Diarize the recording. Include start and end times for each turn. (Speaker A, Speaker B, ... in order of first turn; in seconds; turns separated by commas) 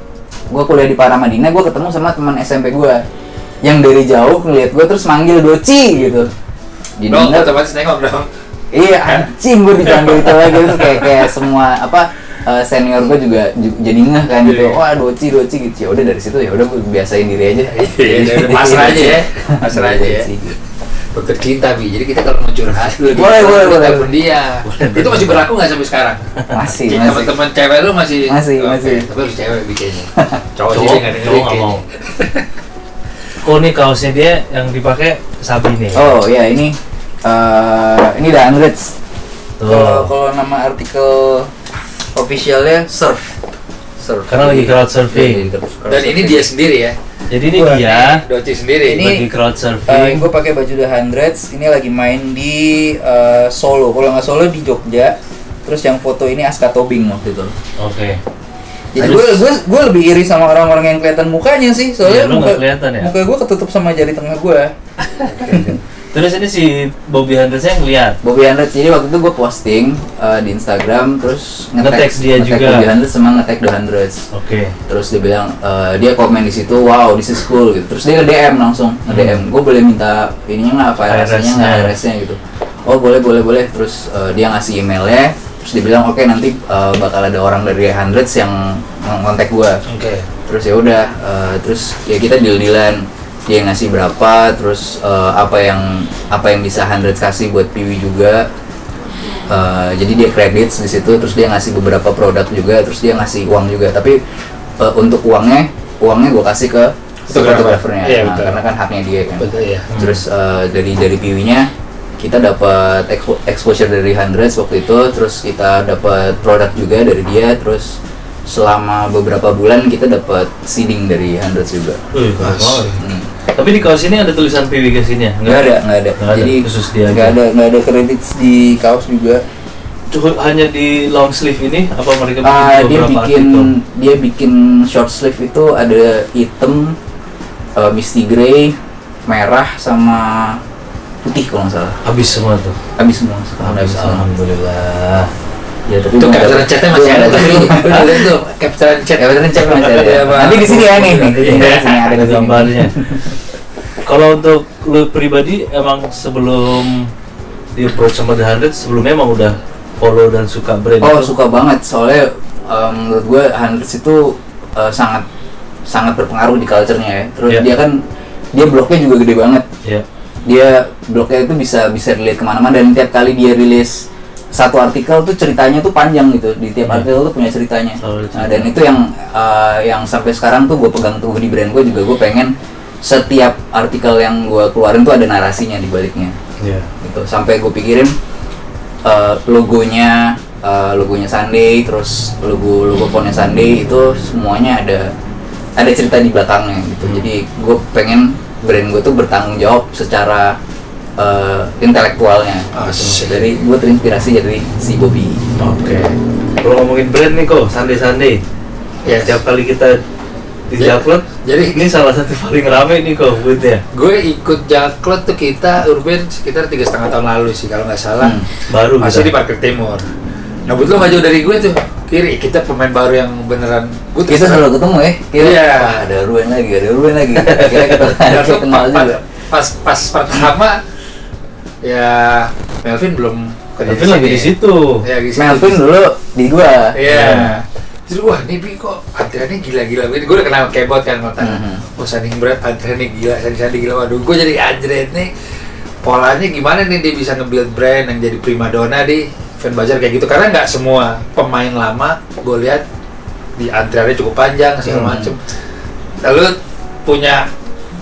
Speaker A: 0.5-3.0, Speaker A: 3.6-6.3, Speaker A: 7.0-7.5, Speaker B: 7.1-8.3, Speaker A: 8.7-20.6, Speaker B: 9.1-9.3, Speaker B: 9.8-11.3, Speaker B: 14.4-14.8, Speaker B: 17.7-20.3, Speaker B: 21.1-26.2, Speaker A: 22.8-24.1, Speaker C: 24.6-25.5, Speaker A: 26.5-27.3, Speaker B: 26.8-32.5, Speaker A: 28.3-29.1, Speaker C: 30.7-31.8, Speaker C: 33.4-36.1, Speaker A: 35.9-39.0, Speaker C: 39.6-40.1, Speaker A: 39.7-41.5, Speaker A: 42.1-43.4, Speaker A: 44.0-46.5, Speaker C: 44.3-45.5, Speaker B: 45.9-47.0, Speaker C: 47.3-48.2, Speaker A: 47.5-47.8, Speaker B: 47.6-49.1, Speaker A: 48.9-49.2, Speaker C: 49.0-50.3, Speaker A: 49.9-57.6, Speaker C: 57.8-58.2, Speaker A: 59.0-64.7, Speaker C: 59.0-59.4, Speaker C: 62.0-63.1, Speaker B: 65.3-65.8, Speaker A: 65.5-65.7, Speaker C: 66.1-68.2, Speaker A: 68.2-74.3, Speaker C: 71.8-72.9, Speaker C: 74.3-74.8, Speaker A: 74.9-89.8, Speaker C: 79.1-79.4, Speaker C: 81.1-81.9, Speaker B: 89.9-90.3, Speaker A: 90.5-98.5, Speaker A: 99.5-104.2, Speaker A: 104.8-111.7, Speaker B: 107.3-108.6, Speaker B: 109.4-109.9, Speaker C: 109.9-110.2, Speaker A: 112.2-122.0, Speaker C: 122.1-122.9, Speaker B: 122.4-123.0, Speaker A: 123.0-123.3, Speaker C: 123.6-125.7, Speaker A: 125.5-129.4, Speaker C: 126.2-127.4, Speaker C: 130.1-133.7, Speaker A: 132.4-137.0, Speaker A: 137.8-140.6, Speaker A: 141.2-142.0, Speaker C: 142.1-142.8, Speaker A: 143.0-144.2, Speaker C: 143.6-145.3, Speaker A: 145.9-148.3, Speaker B: 146.2-152.0, Speaker A: 149.2-153.3, Speaker C: 151.4-153.3, Speaker C: 154.0-157.1, Speaker C: 157.7-161.3, Speaker A: 161.0-165.2, Speaker A: 165.9-168.0, Speaker A: 168.5-169.7, Speaker A: 170.5-186.4, Speaker C: 178.0-178.7, Speaker C: 186.6-186.9, Speaker A: 187.0-188.2, Speaker A: 189.1-195.1, Speaker A: 195.8-200.6, Speaker A: 201.2-205.4, Speaker B: 202.7-203.6, Speaker C: 205.6-208.4, Speaker B: 209.1-209.4, Speaker C: 209.2-210.0, Speaker C: 210.7-213.8, Speaker B: 210.8-211.9, Speaker B: 213.9-218.4, Speaker A: 218.2-218.5, Speaker C: 218.7-219.3, Speaker B: 218.9-220.1, Speaker B: 220.7-224.7, Speaker A: 224.3-229.2, Speaker B: 225.4-226.1, Speaker C: 227.6-227.9, Speaker B: 228.1-230.8, Speaker B: 231.8-235.8, Speaker C: 233.9-235.0, Speaker A: 235.4-237.0, Speaker B: 236.9-245.3, Speaker C: 237.1-237.6, Speaker A: 241.4-241.8, Speaker B: 246.0-252.8, Speaker B: 253.6-255.5, Speaker A: 254.9-255.3, Speaker B: 256.2-257.5